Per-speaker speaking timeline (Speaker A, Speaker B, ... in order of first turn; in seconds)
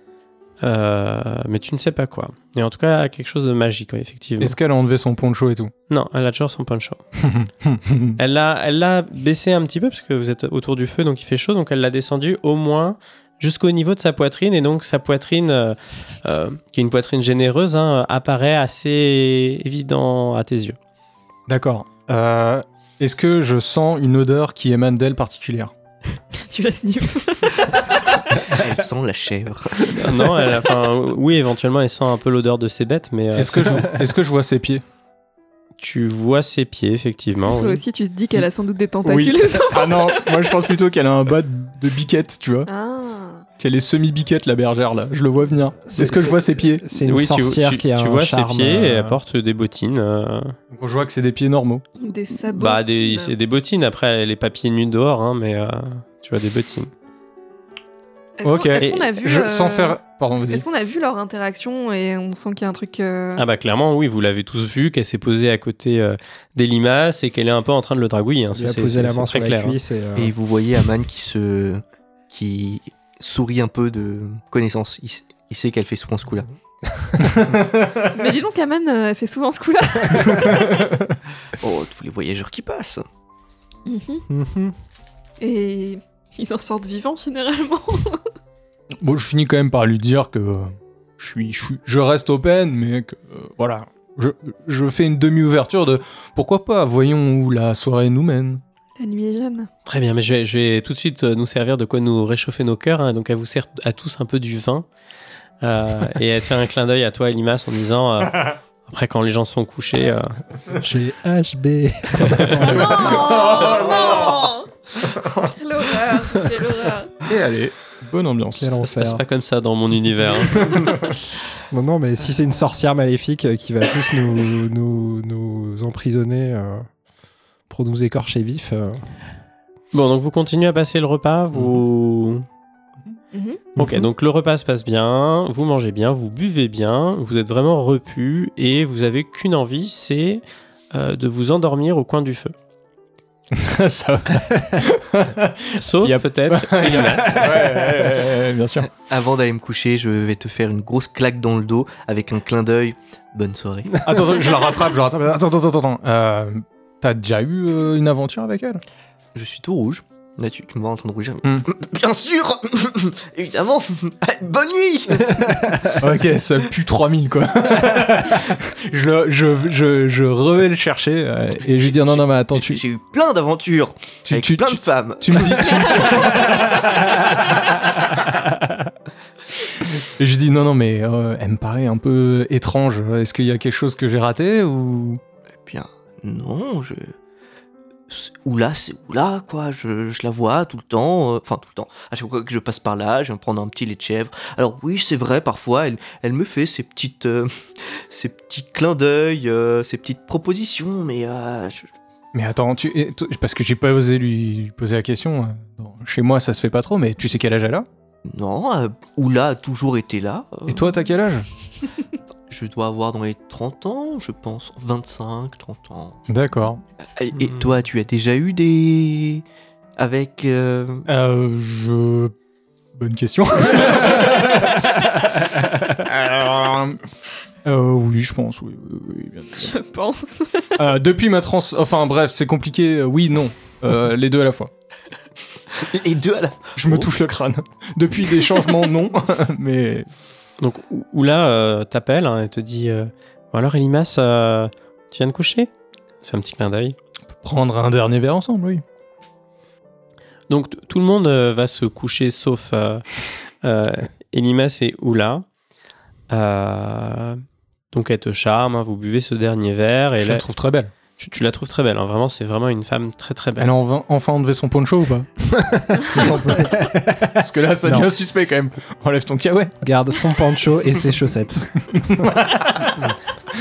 Speaker A: 0.6-4.6, 5.9-7.0, 8.2-20.8, 29.9-33.9, 35.8-37.8, 47.0-50.6, 52.5-56.9, 63.4-69.8, 99.9-104.9, 105.6-110.4, 118.9-120.8, 129.9-132.5, 133.8-140.4, 140.9-142.5, 145.8-147.6, 240.6-245.7, 246.2-247.0, 250.5-255.5, 256.3-260.4, 261.2-263.7
Speaker B: 4.4-5.7, 7.2-8.2, 21.5-25.7, 33.4-34.8, 39.0-42.7, 43.6-46.9, 50.7-51.9, 58.4-60.7, 77.2-78.1, 80.3-81.2, 89.0-98.6, 112.5-114.4, 115.1-115.5, 117.2-118.8, 120.6-121.1, 131.5-131.8, 143.5-148.9, 154.0-158.8, 166.0-172.8, 174.3-177.1, 180.0-185.2, 202.3-207.9, 210.7-211.5, 216.3-216.8, 221.1-222.3, 222.9-227.0, 227.6-229.7, 230.8-234.7, 236.8-240.1, 247.3-248.8, 260.2-260.9, 263.6-265.3, 265.9-269.8, 271.9-273.1
Speaker C: 26.3-28.2, 37.4-40.5, 42.7-43.5, 52.0-53.4, 58.4-63.4, 78.1-80.9, 83.9-84.2, 85.4-88.2, 99.0-99.7, 112.6-117.2, 133.3-133.6, 229.6-230.8
Speaker D: 28.4-30.1, 70.2-76.5, 81.5-83.0, 148.9-154.1, 159.3-165.6, 171.6-176.6, 185.6-187.1, 188.1-201.9, 208.2-210.9, 212.5-216.2, 217.0-219.4, 220.0-221.1, 235.7-237.1
Speaker E: 45.9-49.2, 68.5-70.3, 76.9-77.3, 84.3-84.8, 110.8-113.1, 118.6-119.2, 121.7-126.9, 127.7-129.1, 133.8-134.1, 265.5-268.1, 269.8-271.7